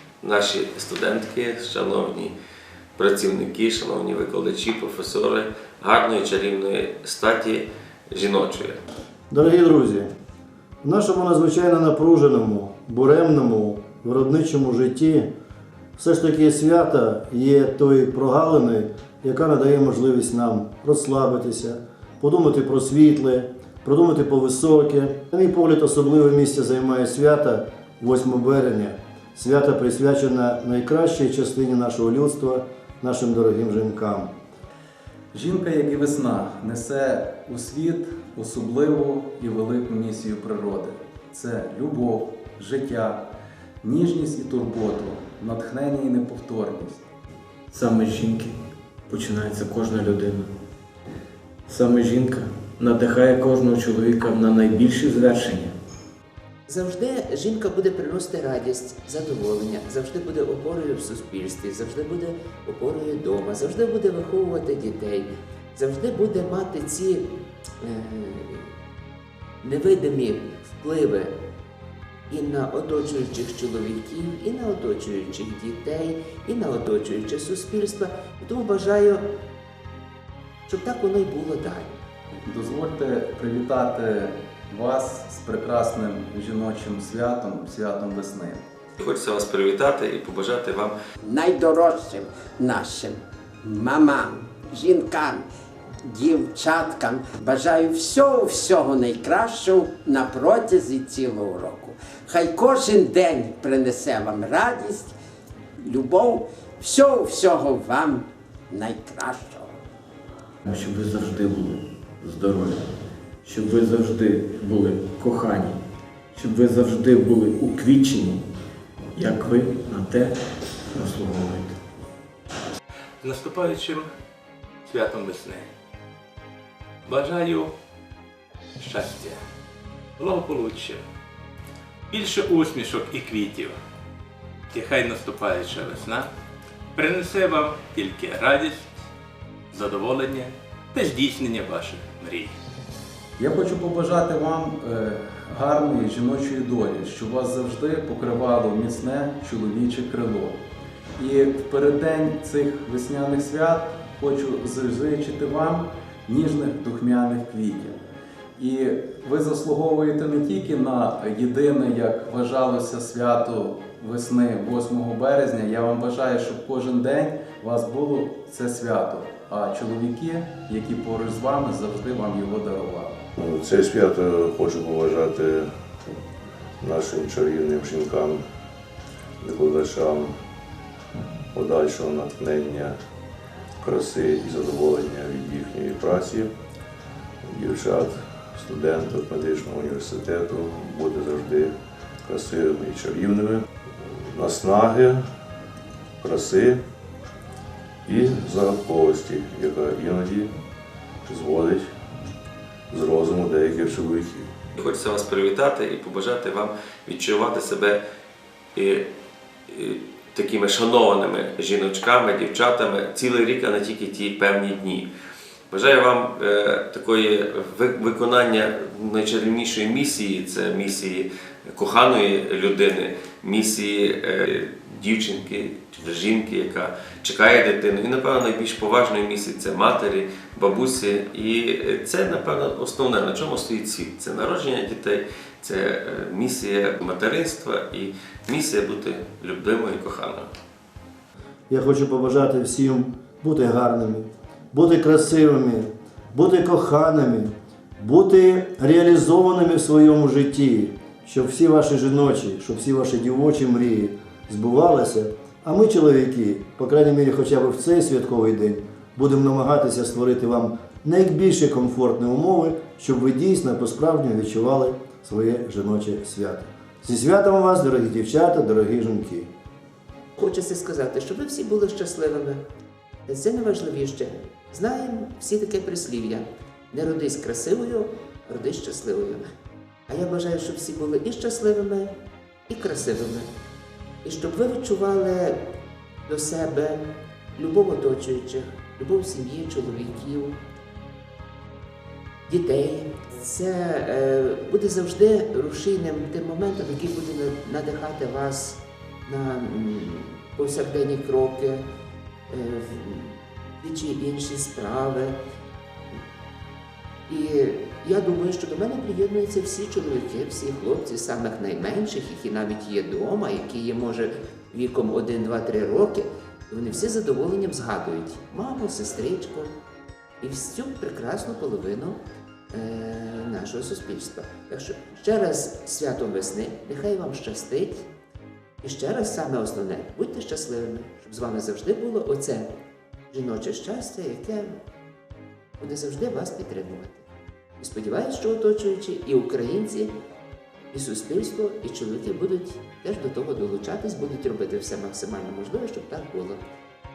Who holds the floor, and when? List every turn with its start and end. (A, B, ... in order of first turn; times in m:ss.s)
0:00.2-0:02.3 A
0:03.0-0:08.8 A
0:09.3-0:10.1 B
0:10.8-0:15.3 B
0:16.0-0:34.3 B
0:35.3-0:43.2 C
0:43.8-0:47.0 C
0:47.7-0:48.5 D
0:49.1-0:50.5 D
0:51.7-0:55.7 D
0:56.7-1:07.3 E
1:07.8-1:08.7 E
1:09.6-1:11.3 E
1:12.3-1:19.2 E
1:20.7-1:22.0 E
1:22.5-1:28.6 C
1:29.0-1:30.9 A
1:31.2-1:35.4 F
1:36.0-1:45.2 F
1:45.8-1:49.7 F
1:50.7-1:52.8 D
1:53.4-1:55.8 D
1:56.3-1:58.4 D
1:59.2-2:01.8 D
2:03.2-2:04.1 G
2:04.9-2:05.7 G
2:07.1-2:07.7 G
2:08.8-2:09.4 G
2:10.2-2:11.0 G
2:12.1-2:13.8 G
2:14.7-2:16.3 G
2:17.0-2:18.9 G
2:19.7-2:22.5 G
2:23.4-2:30.6 C
2:31.2-2:38.0 C
2:38.6-2:53.2 C
2:53.4-2:55.7 H
2:56.8-2:58.4 H
2:59.4-3:00.3 H
3:01.5-3:03.0 H
3:03.8-3:06.5 H
3:07.4-3:11.7 H
3:12.2-3:13.6 H
3:14.3-3:15.2 H
3:16.2-3:16.8 H
3:18.1-3:20.5 H
3:21.3-3:21.8 H
3:22.9-3:24.5 H
3:24.8-3:28.0 A
3:28.8-3:29.0 A
3:29.7-3:35.1 A
3:35.7-4:00.5 A
4:01.7-4:29.5 B
4:30.4-4:32.6 E
4:33.3-4:39.4 E
4:40.1-4:42.1 E
4:42.7-4:43.5 E
4:44.2-4:45.7 E
4:46.3-4:47.0 E
4:47.6-4:50.6 E
4:52.5-5:01.8 E
5:02.5-5:05.4 E
5:07.3-5:19.7 E
5:20.4-5:22.2 E
5:22.7-5:28.1 E
5:28.8-5:32.7 E
5:33.3-5:34.8 E
5:35.8-5:37.3 E
5:37.8-5:40.1 E
5:40.9-5:46.6 E